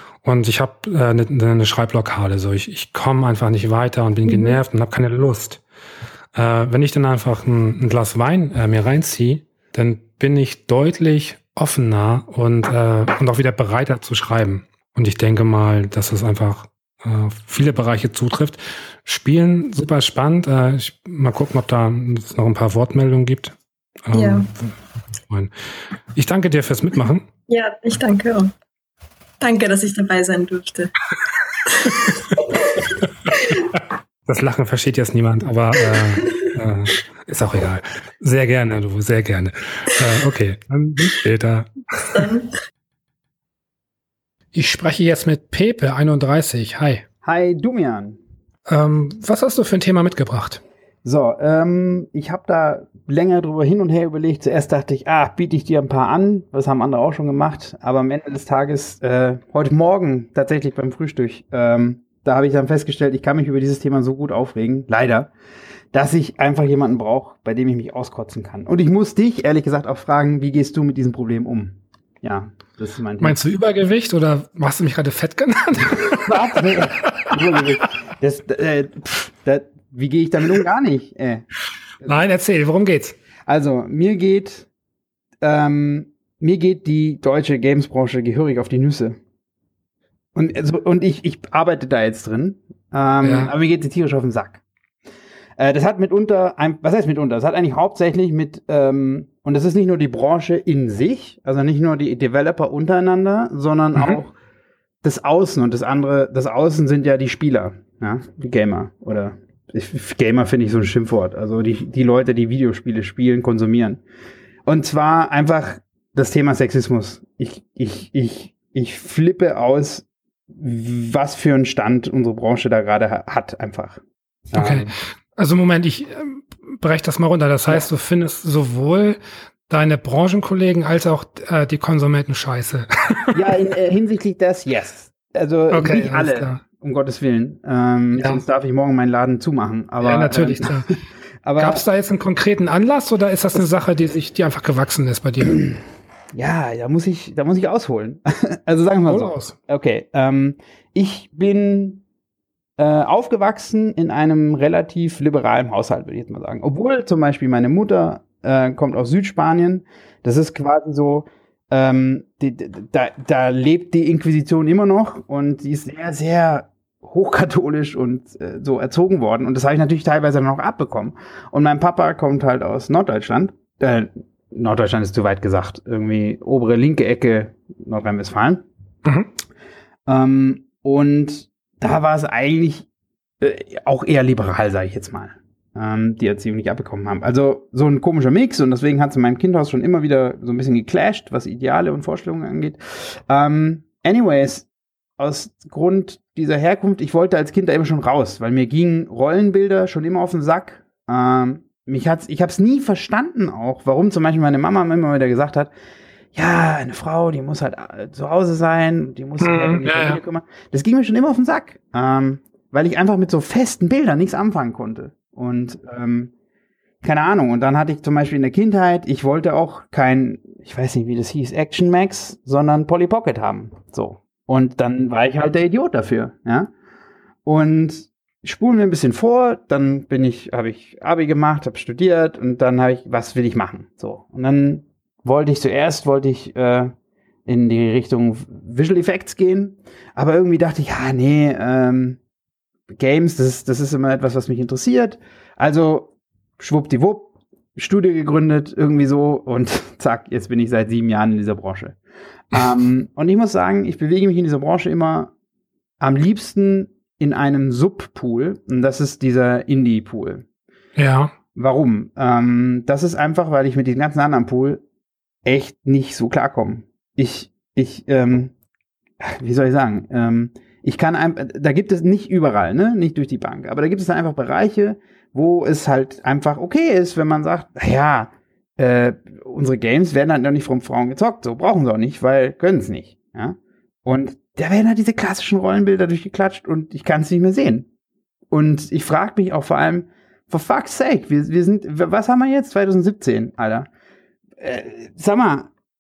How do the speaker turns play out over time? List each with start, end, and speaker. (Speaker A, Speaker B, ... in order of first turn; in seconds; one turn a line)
Speaker A: 0.2-5.6
Speaker B: 4.3-4.6
Speaker A: 6.3-23.6
Speaker A: 24.1-25.5
Speaker B: 24.1-24.5
Speaker A: 26.1-27.3
Speaker B: 27.5-28.5
Speaker B: 29.4-30.9
Speaker B: 31.7-33.7
Speaker A: 31.9-32.1
Speaker A: 33.8-42.3
Speaker B: 35.9-36.5
Speaker B: 42.1-42.5
Speaker A: 44.5-47.0
Speaker C: 47.2-48.2
Speaker A: 48.7-50.6
Speaker C: 51.0-65.3
Speaker C: 65.9-73.4
Speaker A: 73.2-77.3
Speaker C: 76.3-81.5
Speaker A: 82.0-83.2
Speaker C: 83.5-84.7
Speaker C: 85.4-89.2
Speaker C: 90.3-94.6
Speaker A: 93.2-93.5
Speaker C: 95.6-104.3
Speaker C: 105.0-114.0
Speaker C: 114.7-124.9
Speaker A: 124.5-133.5
Speaker C: 133.3-141.8
Speaker A: 135.7-136.6
Speaker A: 138.2-138.4
Speaker A: 140.0-140.9
Speaker A: 141.6-145.7
Speaker C: 146.3-152.0
Speaker A: 149.1-149.6
Speaker C: 152.8-178.6
Speaker A: 179.1-179.3
Speaker C: 180.1-182.9
Speaker C: 183.4-194.7
Speaker C: 195.2-205.7
Speaker C: 206.3-216.3
Speaker A: 209.4-210.2
Speaker C: 217.0-226.7
Speaker C: 227.5-236.9
Speaker C: 237.5-242.2
Speaker C: 242.9-252.0
Speaker C: 252.5-255.3
Speaker C: 256.0-260.4
Speaker A: 261.0-261.4
Speaker C: 261.6-264.8
Speaker C: 265.4-268.5
Speaker C: 269.2-287.9
Speaker C: 288.5-293.9
Speaker C: 294.6-295.7